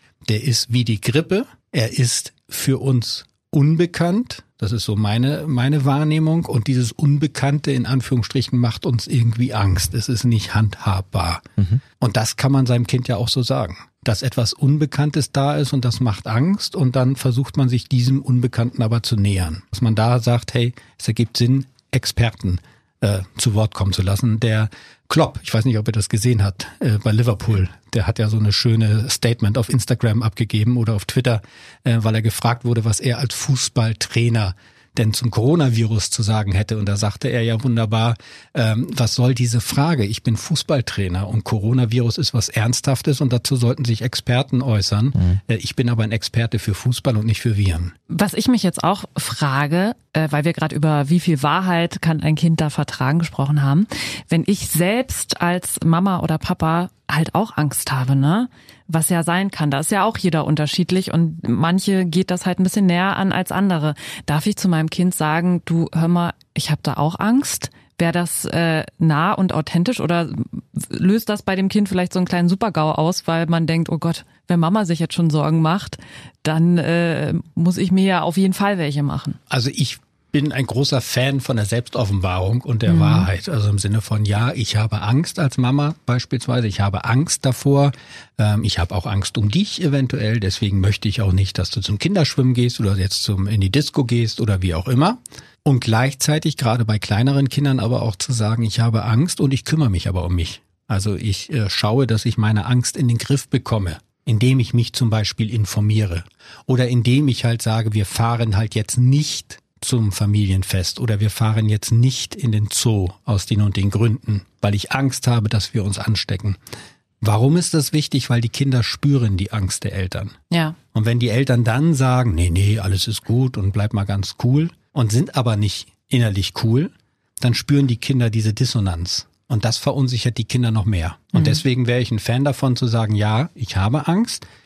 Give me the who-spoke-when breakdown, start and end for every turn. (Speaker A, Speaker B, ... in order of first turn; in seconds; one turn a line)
Speaker A: 0.3-11.4
Speaker A: 12.0-48.0
Speaker B: 48.1-79.4
Speaker A: 79.5-116.6
Speaker B: 82.9-83.2
Speaker A: 117.2-120.4
Speaker B: 120.5-120.8
Speaker A: 120.9-134.4